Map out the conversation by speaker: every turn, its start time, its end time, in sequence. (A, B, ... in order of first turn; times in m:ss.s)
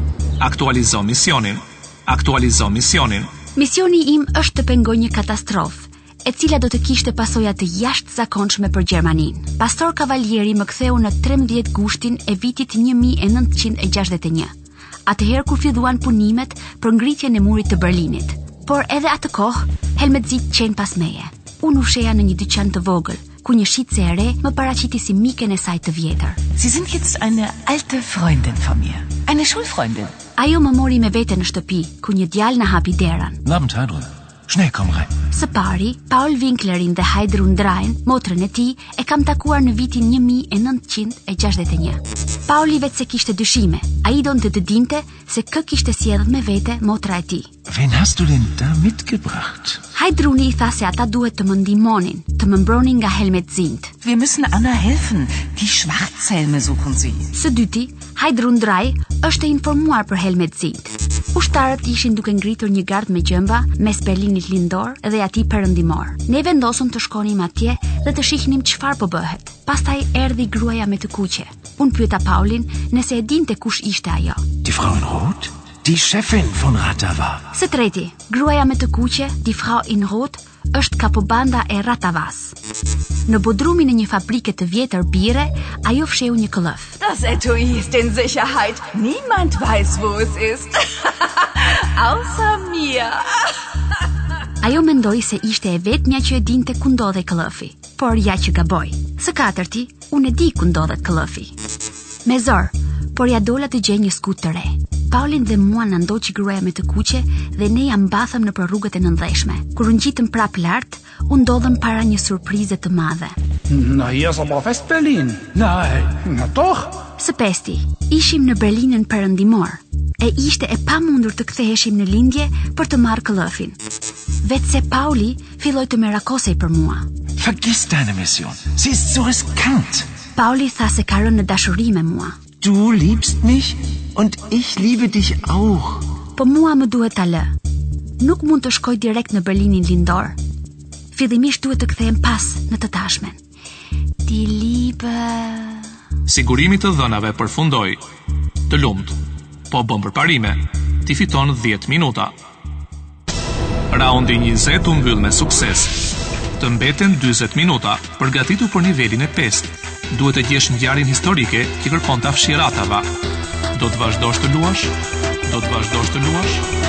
0:00.4-0:03.3 A
0:03.6-0:14.5 B
0:15.1-0:26.4 B
0:26.6-0:30.1 C
0:30.4-0:33.4 B
0:33.4-0:35.2 D
0:35.3-0:47.5 B
0:47.7-0:49.8 D
0:50.0-0:53.9 B
0:54.0-0:57.3 C
0:57.3-1:14.5 B
1:14.6-1:17.5 D
1:17.5-1:22.6 B
1:23.3-1:27.0 B
1:27.0-1:33.2 C
1:34.6-1:41.5 B
1:42.2-1:53.4 B
1:53.7-1:57.0 E
1:57.2-2:03.8 B
2:04.4-2:07.1 B
2:07.4-2:10.1 D
2:10.4-2:12.4 B
2:12.6-2:16.0 D
2:16.4-2:17.5 B
2:18.2-2:20.4 B
2:21.1-2:23.4 B
2:24.2-2:25.9 B
2:26.3-2:28.0 A
2:28.7-2:29.2 A
2:29.7-2:32.3 A
2:33.9-2:36.0 A
2:36.6-2:43.1 A
2:43.7-2:44.9 A
2:45.5-2:46.6 A